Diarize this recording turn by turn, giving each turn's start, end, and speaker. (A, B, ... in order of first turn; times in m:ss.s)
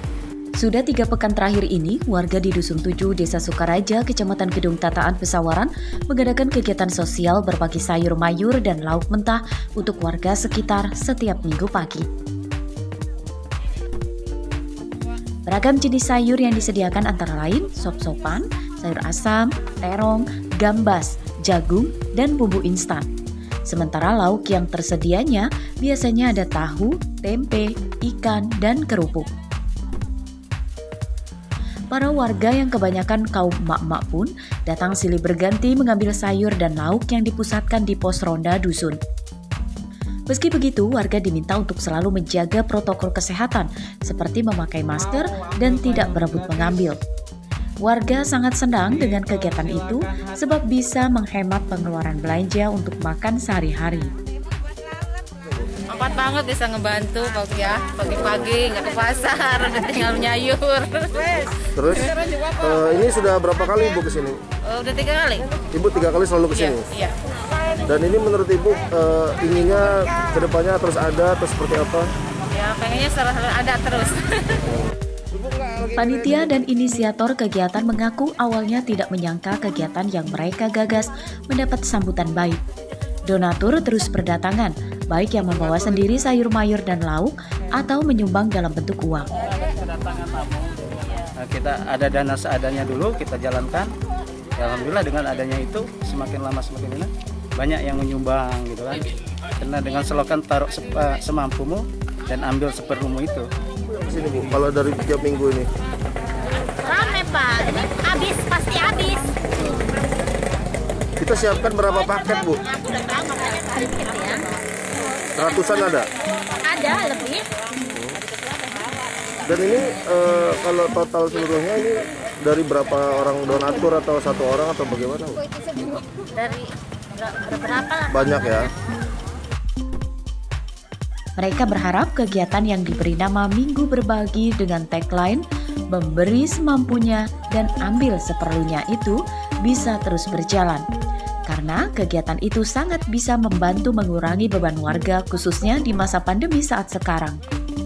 0:00.6-0:12.0 A
0:15.5-0:23.1 A
0:23.7-0:29.3 A
0:31.9-0:39.0 A
0:40.3-0:47.0 A
0:47.8-0:54.1 A
0:55.9-1:01.6 B
1:01.7-1:04.4 C
1:04.6-1:05.5 B
1:05.7-1:06.9 C
1:06.5-1:07.2 B
1:07.8-1:12.1 C
1:12.5-1:14.6 B
1:15.3-1:16.4 C
1:16.0-1:22.6 A
1:23.3-1:29.3 A
1:29.6-1:30.7 D
1:31.2-1:33.9 D
1:34.6-1:43.5 D
1:43.9-1:45.7 C
1:46.8-1:49.3 E
1:51.2-1:52.6 C
1:52.4-1:54.4 B
1:53.9-1:54.5 E
1:55.3-1:56.1 C
1:56.6-1:57.5 E
1:57.9-1:58.2 C
1:59.4-2:05.4 C
2:06.3-2:06.6 E
2:07.2-2:08.1 E
2:08.1-2:08.7 C
2:11.4-2:20.8 A
2:21.5-2:27.4 A